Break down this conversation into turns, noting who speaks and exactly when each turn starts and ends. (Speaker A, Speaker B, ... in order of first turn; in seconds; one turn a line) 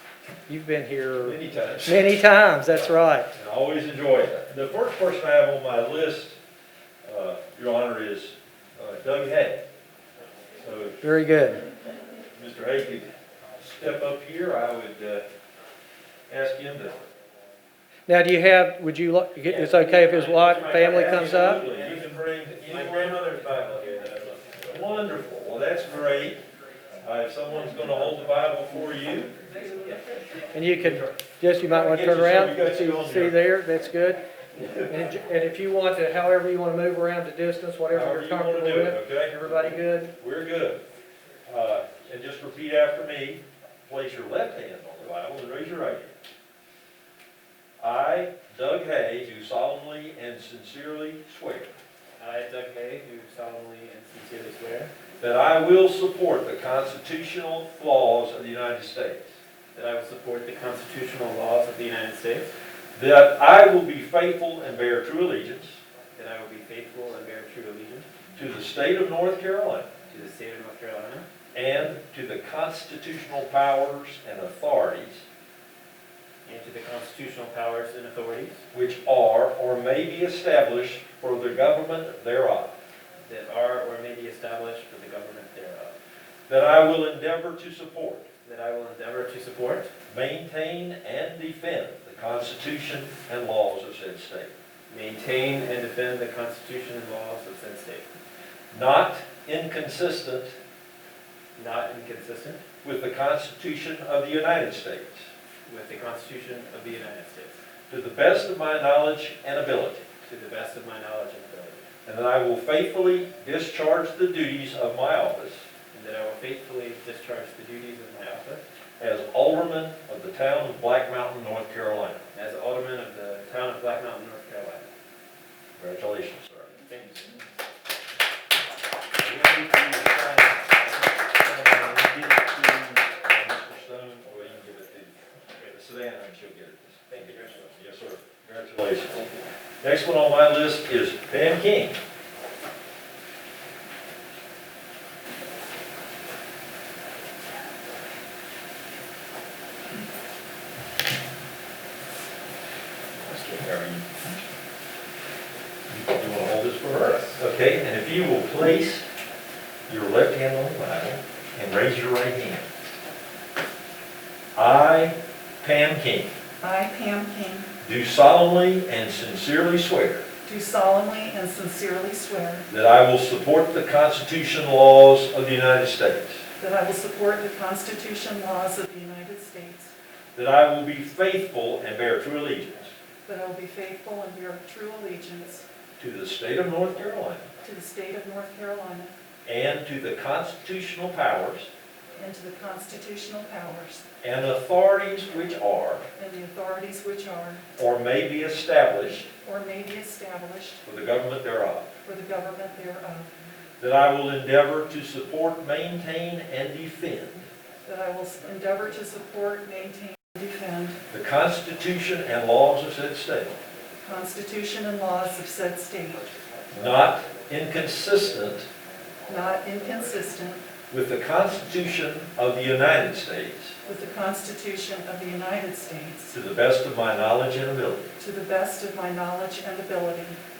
Speaker A: 0.5-3.3
Speaker B: 1.2-2.1
Speaker B: 2.7-6.4
Speaker B: 7.0-9.6
Speaker B: 10.6-10.9
Speaker A: 11.0-11.6
Speaker B: 12.3-15.2
Speaker B: 16.3-17.0
Speaker A: 18.1-21.6
Speaker B: 19.5-23.7
Speaker C: 19.8-24.8
Speaker B: 24.7-26.4
Speaker B: 27.0-29.4
Speaker C: 29.7-30.0
Speaker A: 30.5-34.2
Speaker B: 30.7-31.2
Speaker B: 31.7-33.4
Speaker A: 34.9-40.1
Speaker B: 37.9-39.4
Speaker B: 40.2-40.8
Speaker B: 41.5-46.1
Speaker B: 47.8-51.7
Speaker C: 52.2-54.9
Speaker B: 55.2-59.3
Speaker C: 59.7-62.5
Speaker B: 63.0-65.8
Speaker C: 66.1-68.1
Speaker B: 68.3-69.9
Speaker C: 70.1-71.2
Speaker B: 71.5-75.2
Speaker C: 76.4-78.6
Speaker B: 78.7-82.8
Speaker C: 83.2-86.0
Speaker B: 86.5-88.2
Speaker C: 88.4-89.9
Speaker B: 90.1-94.5
Speaker C: 94.9-98.1
Speaker B: 98.7-100.5
Speaker C: 101.5-102.6
Speaker B: 102.8-105.3
Speaker C: 105.7-107.6
Speaker B: 107.9-110.0
Speaker C: 110.2-111.8
Speaker B: 112.0-115.7
Speaker C: 115.9-118.6
Speaker B: 119.0-122.3
Speaker C: 122.3-124.9
Speaker B: 125.8-126.8
Speaker C: 126.8-127.4
Speaker B: 129.2-142.0
Speaker B: 153.3-154.0
Speaker B: 155.9-159.0
Speaker B: 159.9-162.7
Speaker B: 164.5-166.3
Speaker D: 166.6-167.7
Speaker B: 167.8-170.2
Speaker D: 170.4-172.7
Speaker B: 172.7-176.4
Speaker D: 176.6-179.9
Speaker B: 180.3-182.9
Speaker D: 183.2-185.7
Speaker B: 186.0-187.4
Speaker D: 187.6-189.1
Speaker B: 189.4-191.7
Speaker D: 192.2-194.0
Speaker B: 194.2-196.0
Speaker D: 196.1-197.6
Speaker B: 197.8-199.3
Speaker D: 199.2-200.8
Speaker B: 200.8-201.9
Speaker D: 202.0-203.3
Speaker B: 203.8-207.5
Speaker D: 207.8-211.0
Speaker B: 211.1-213.6
Speaker D: 213.9-216.3
Speaker B: 216.7-218.7
Speaker D: 219.3-220.6
Speaker B: 220.9-223.7
Speaker D: 223.8-226.3
Speaker B: 226.3-228.1
Speaker D: 228.2-230.4